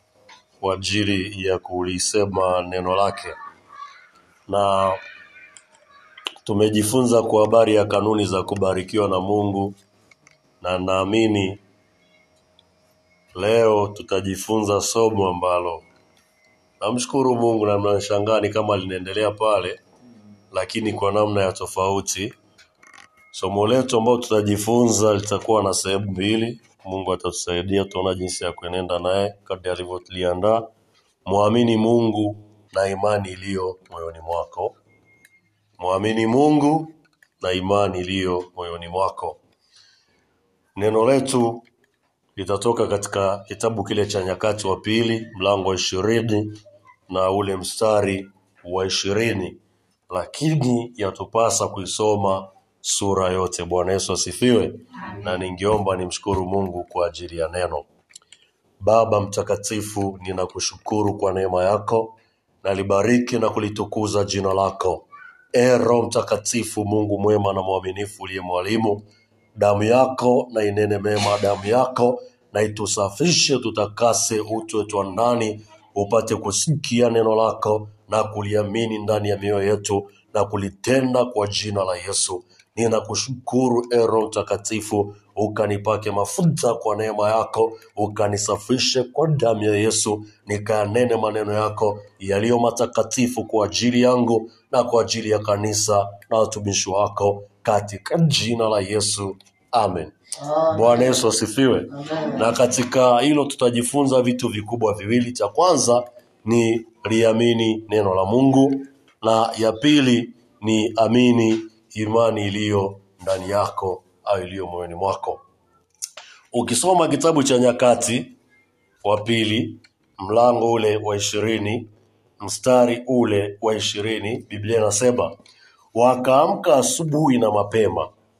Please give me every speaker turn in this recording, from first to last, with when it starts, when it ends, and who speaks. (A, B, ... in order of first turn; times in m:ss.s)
0:00.6-0:03.4 A
0:04.5-0:05.0 A
0:06.4-0:09.7 A
0:10.6-0:11.6 A
0:13.3-0:15.8 A
0:16.8-0:19.8 A
0:20.5-0:22.3 A
0:23.3-0:30.6 A
0:31.2-0:34.8 A
0:35.8-0:39.4 A
0:40.8-0:41.6 A
0:42.4-0:46.6 A
0:47.1-0:49.6 A
0:50.1-0:57.8 A
0:58.8-1:09.0 A
1:09.5-1:55.4 A
1:56.5-1:58.3 A
1:59.0-2:01.9 A
2:02.4-2:05.3 A
2:05.9-2:08.1 A